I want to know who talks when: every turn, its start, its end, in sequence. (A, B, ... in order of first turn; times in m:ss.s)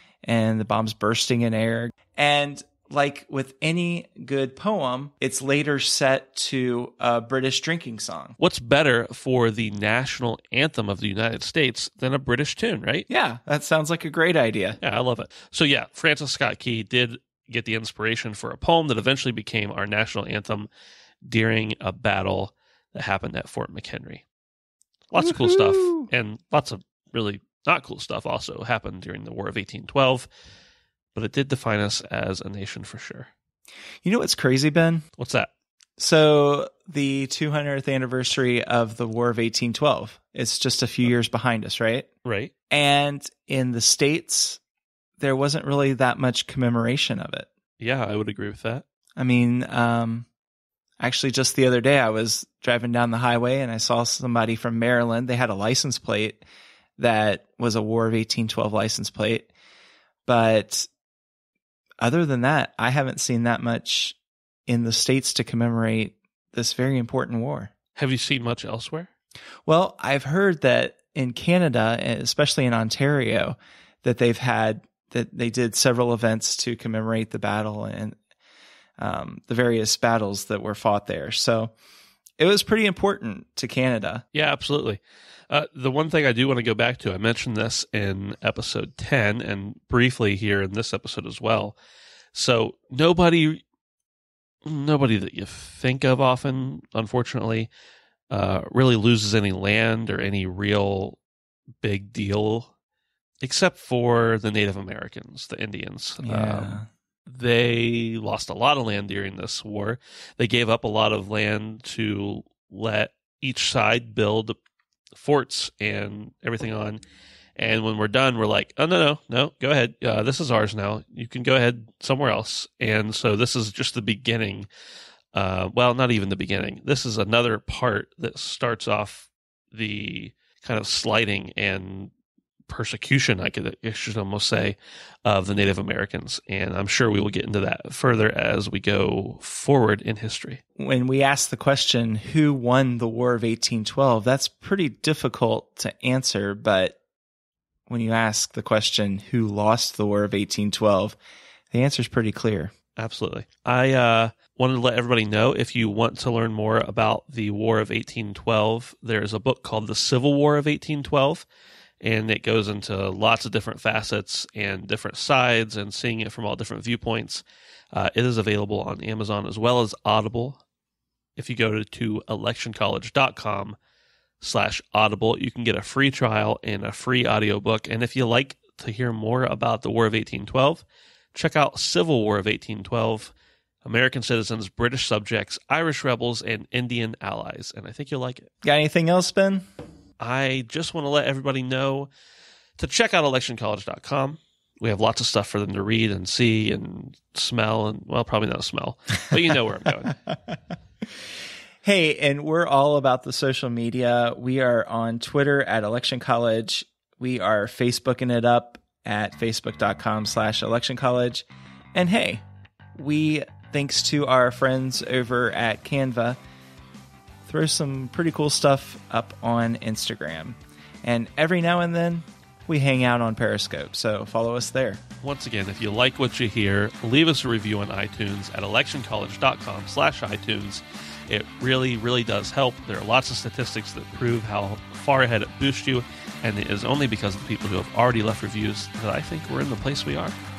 0:00.2-0:08.4 A
0:08.4-0:13.1 B
0:13.1-0:14.8 A
0:14.8-0:20.7 B
0:21.2-0:24.2 B
0:25.1-0:30.3 B
0:25.2-0:26.1 A
0:31.2-0:33.3 B
0:34.0-0:35.0 A
0:35.2-0:35.5 B
0:36.0-0:42.1 A
0:42.2-0:42.5 B
0:42.7-0:44.6 A
0:45.2-0:47.5 A
0:47.8-0:48.8 B
0:49.2-0:50.3 A
0:51.0-0:56.4 A
0:57.0-0:59.5 A
1:00.2-1:00.9 A
1:02.0-1:04.2 A
1:04.7-1:07.7 A
1:08.0-1:09.1 B
1:09.7-1:18.2 A
1:19.0-1:21.7 A
1:22.4-1:24.2 A
1:24.3-1:31.8 B
1:32.3-1:33.6 B
1:34.6-1:37.7 B
1:38.3-1:41.2 B
1:41.8-1:42.7 B
1:43.4-1:54.6 B
1:46.2-1:46.9 A
1:55.1-1:57.0 B
1:57.6-2:04.7 B
2:05.3-2:12.1 B
2:12.7-2:20.6 B
2:20.8-2:27.0 A
2:27.9-2:31.2 A
2:31.7-2:32.7 A
2:33.0-2:41.4 B
2:42.0-2:50.6 B
2:51.4-2:53.8 B
2:54.4-3:03.3 B
3:03.8-3:08.5 B
3:08.6-3:09.7 A
3:10.2-3:12.1 B
3:12.8-3:20.2 B
3:21.8-3:32.4 A
3:33.0-3:36.4 A
3:37.4-3:45.0 A
3:45.2-4:00.4 B